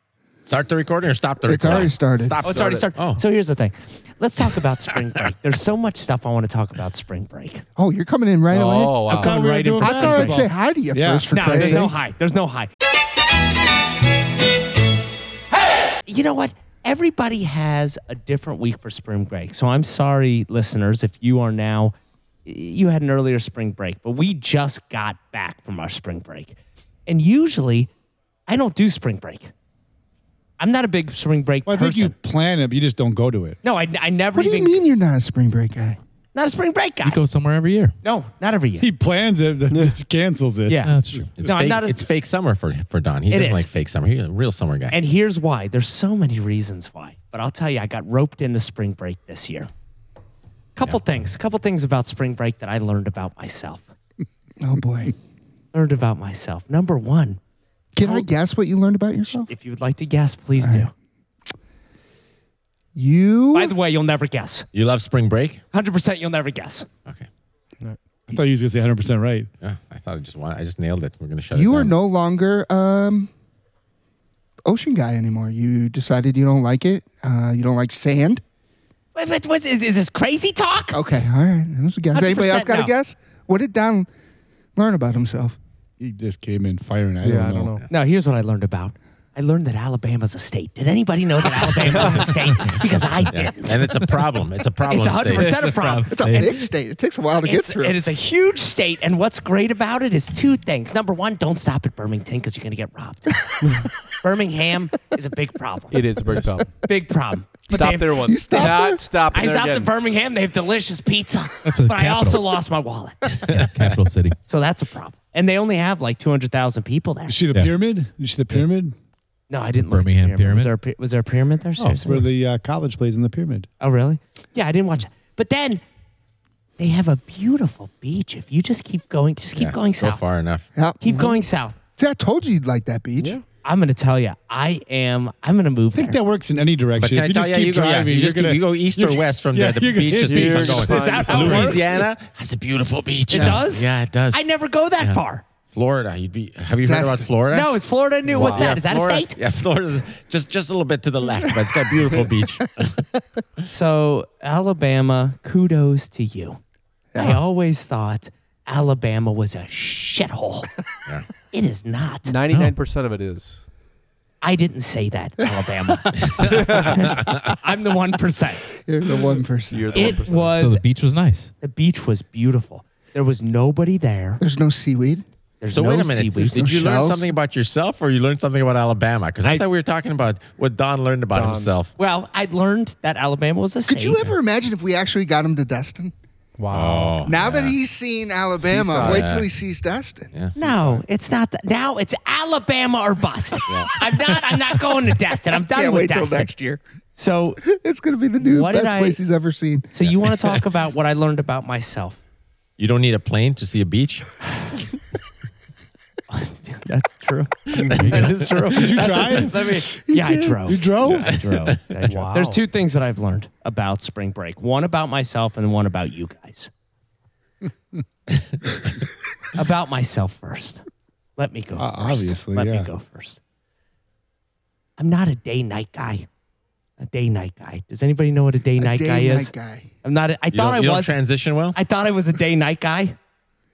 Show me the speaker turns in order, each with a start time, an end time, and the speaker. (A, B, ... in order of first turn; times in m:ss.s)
0:00.5-0:03.2 A
0:01.4-0:02.4 B
0:02.4-0:07.6 C
0:07.8-0:09.0 B
0:08.5-0:09.3 D
0:09.1-0:10.5 C
0:09.1-0:11.9 E
0:09.8-0:11.9 B
0:11.3-0:12.7 C
0:16.0-0:21.9 C
0:22.4-0:27.9 C
0:28.5-0:29.5 C
0:30.6-0:32.1 C
0:31.6-0:33.6 E
0:33.6-0:34.8 C
0:34.3-0:36.0 B
0:36.3-0:37.2 C
0:37.0-0:37.9 F
0:38.0-0:38.9 C
0:38.8-0:41.3 E
0:40.7-0:42.1 C
0:40.8-0:41.3 F
0:41.4-0:45.0 A
0:43.3-0:43.7 C
0:44.9-0:49.7 C
0:50.8-0:53.9 C
0:54.6-0:55.1 B
0:55.7-0:57.4 C
0:58.0-0:59.5 B
0:58.0-0:58.3 C
0:59.4-1:00.9 C
1:00.6-1:00.9 B
1:03.0-1:03.8 B
1:03.5-1:04.7 C
1:04.7-1:05.6 A
1:05.7-1:06.9 C
1:07.8-1:09.5 E
1:09.6-1:11.9 A
1:11.5-1:13.3 B
1:14.6-1:18.4 B
1:19.1-1:20.9 C
1:20.9-1:24.1 B
1:22.1-1:22.9 C
1:24.8-1:25.6 B
1:26.0-1:27.8 E
1:27.2-1:27.8 D
1:27.9-1:33.8 C
1:31.9-1:32.3 A
1:32.0-1:32.2 D
1:33.3-1:35.6 A
1:34.9-1:36.3 C
1:35.3-1:36.6 F
1:36.1-1:38.0 B
1:37.4-1:46.0 C
1:45.9-1:46.7 D
1:46.8-1:48.7 C
1:47.7-1:49.1 B
1:47.7-1:49.9 D
1:49.3-1:53.3 C
1:51.6-1:52.4 F
1:53.5-1:54.4 F
1:53.5-1:53.9 A
1:54.5-1:57.4 C
1:57.3-1:59.0 E
1:59.5-2:02.3 C
1:59.8-2:00.7 F
2:01.8-2:03.7 E
2:03.8-2:05.8 C
2:06.8-2:10.2 C
2:09.5-2:10.7 A
2:10.7-2:11.0 B
2:11.0-2:11.7 C
2:12.0-2:13.4 B
2:13.2-2:13.4 D
2:13.6-2:16.2 C
2:15.9-2:21.0 E
2:17.0-2:24.4 A
2:20.2-2:21.9 D
2:20.8-2:21.9 C
2:21.4-2:21.7 F
2:23.3-2:25.4 C
2:23.3-2:23.6 B
2:25.7-2:27.7 A
2:26.8-2:27.3 B
2:27.5-2:29.4 C
2:28.2-2:33.1 A
2:33.7-2:36.6 C
2:37.1-2:37.4 B
2:37.2-2:40.7 C
2:41.5-2:42.3 C
2:42.2-2:43.6 D
2:42.5-2:42.8 F
2:44.4-2:48.7 C
2:46.4-2:47.0 D
2:48.7-2:50.2 B
2:49.7-2:50.6 D
2:49.9-2:50.8 C
2:50.5-2:51.5 F
2:51.6-2:54.4 C
2:54.4-2:55.2 B
2:55.6-2:56.6 C
2:55.7-3:01.9 A
2:56.4-2:57.3 B
3:01.3-3:01.7 D
3:02.0-3:04.2 C
3:03.9-3:06.1 B
3:06.6-3:07.2 E
3:06.7-3:07.8 A
3:07.2-3:10.3 B
3:08.6-3:09.3 D
3:08.9-3:09.5 A
3:10.3-3:11.0 A
3:10.5-3:16.5 C
3:13.7-3:14.3 A
3:15.7-3:16.8 B
3:17.2-3:17.6 C
3:17.6-3:19.9 B
3:18.4-3:19.2 C
3:19.9-3:22.2 C
3:22.8-3:24.4 A
3:26.3-3:36.7 C
3:27.8-3:28.1 D
3:27.8-3:28.6 A
3:28.7-3:29.7 E
3:29.9-3:30.6 B
3:30.6-3:31.3 E
3:31.0-3:32.0 A
3:32.1-3:32.6 D
3:39.5-3:40.8 C
3:41.4-3:43.4 C
3:41.8-3:42.9 E
3:45.0-3:46.2 C
3:47.0-3:51.2 C
3:48.8-3:49.9 B
3:50.5-3:51.8 A
3:51.7-3:53.2 C